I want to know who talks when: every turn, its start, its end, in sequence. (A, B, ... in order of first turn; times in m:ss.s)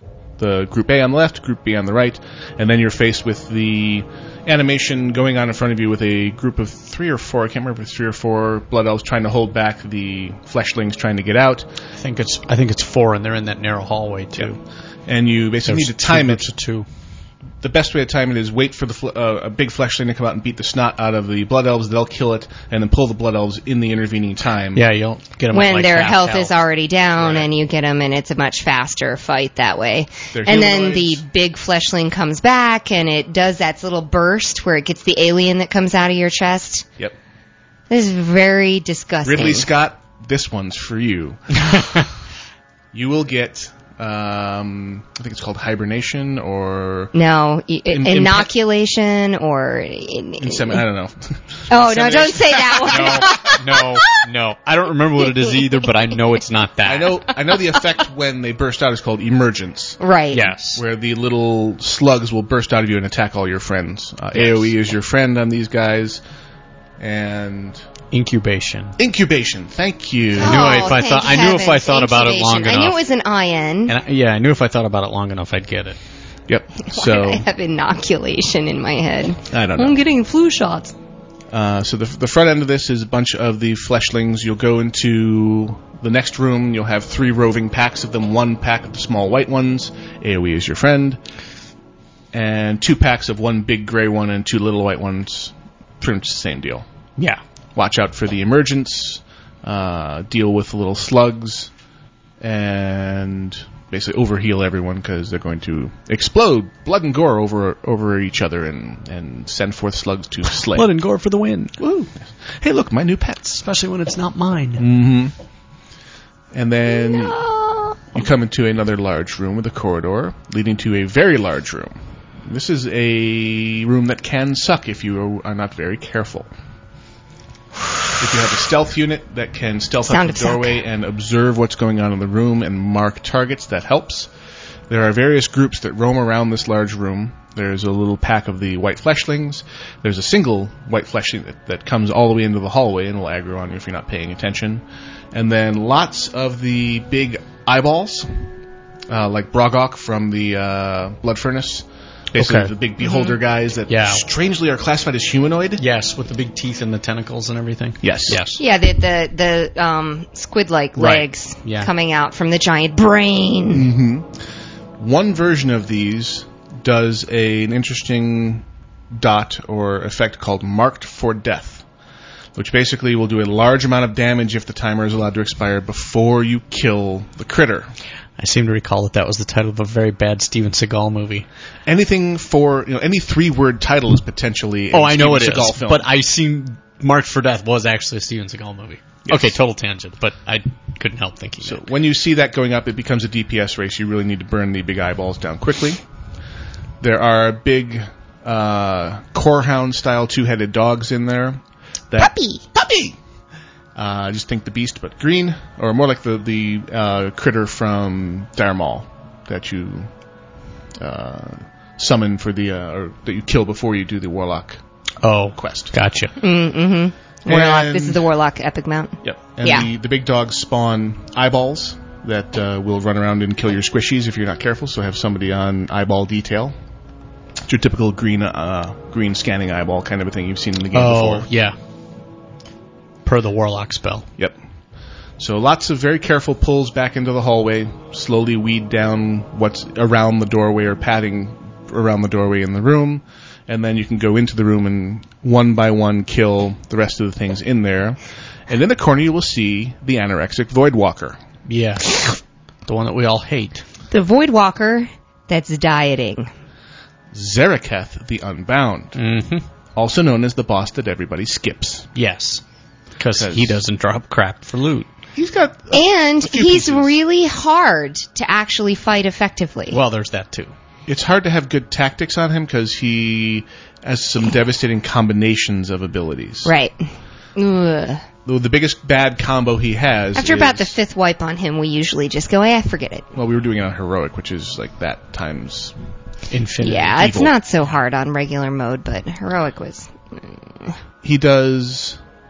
0:00.4-0:11.7 A
0:12.0-0:14.6 B
0:14.4-0:16.5 A
0:15.6-0:16.8 B
0:17.6-0:24.8 A
0:24.7-0:26.6 B
0:25.5-0:36.8 C
0:27.2-0:27.4 A
0:30.3-0:31.2 A
0:37.9-0:39.7 C
0:39.2-0:41.6 A
0:42.9-0:47.1 A
0:47.1-0:50.8 C
0:47.9-0:48.5 A
0:50.4-0:53.4 A
0:51.7-0:53.6 C
0:52.8-0:57.2 B
0:56.8-1:00.0 A
1:00.0-1:00.5 C
1:00.3-1:00.8 B
1:00.7-1:06.2 A
1:04.4-1:04.6 B
1:07.0-1:07.8 A
1:08.1-1:09.0 B
1:09.0-1:10.8 A
1:10.4-1:13.9 C
1:10.4-1:13.0 B
1:13.9-1:16.0 B
1:16.5-1:17.4 A
1:16.8-1:20.9 C
1:19.5-1:20.0 A
1:21.5-1:31.2 A
1:32.3-1:36.8 A
1:37.7-1:41.7 A
1:42.4-1:50.9 A
1:50.7-1:51.7 B
1:51.8-1:53.6 A
1:53.6-1:54.8 B
1:54.8-1:55.3 A
1:56.5-1:57.4 A
1:57.0-1:58.0 C
1:58.1-2:06.5 A
2:08.2-2:14.3 A
2:10.1-2:10.8 C
2:14.9-2:28.4 A
2:29.1-2:35.8 A
2:32.4-2:32.7 B
2:33.0-2:33.3 C
2:33.9-2:34.2 B
2:35.8-2:38.6 B
2:38.0-2:38.4 A
2:38.6-2:43.9 C
2:41.0-2:41.9 B
2:43.7-2:44.3 A
2:45.0-2:51.8 A
2:52.5-2:57.9 A
2:58.4-3:01.4 B
3:01.8-3:06.0 A
3:04.9-3:11.8 B
3:09.2-3:09.5 A
3:11.6-3:16.0 A
3:17.0-3:23.2 A
3:22.2-3:22.6 C
3:23.9-3:30.1 A
3:31.0-3:34.8 A
3:35.2-3:36.3 B
3:35.5-3:35.9 A
3:36.4-3:39.9 C
3:37.4-3:38.3 A
3:39.2-3:46.7 A
3:47.6-3:51.5 A
3:50.9-3:51.7 B
3:53.2-3:54.2 B
3:55.4-4:11.4 A
4:11.7-4:12.3 B
4:12.8-4:13.8 B
4:14.1-4:16.5 C
4:17.3-4:19.2 A
4:19.2-4:19.6 B
4:20.0-4:22.1 A
4:22.1-4:22.6 B
4:23.2-4:25.1 B
4:23.3-4:23.8 A
4:25.4-4:27.1 A
4:25.9-4:30.0 C
4:29.9-4:30.7 B
4:31.1-4:36.7 A
4:36.6-4:38.2 C
4:38.4-4:40.9 A
4:40.3-4:43.3 C
4:43.3-4:45.9 A
4:46.5-4:47.2 B
4:46.8-4:50.9 C
4:47.0-4:47.5 A
4:51.2-4:52.2 A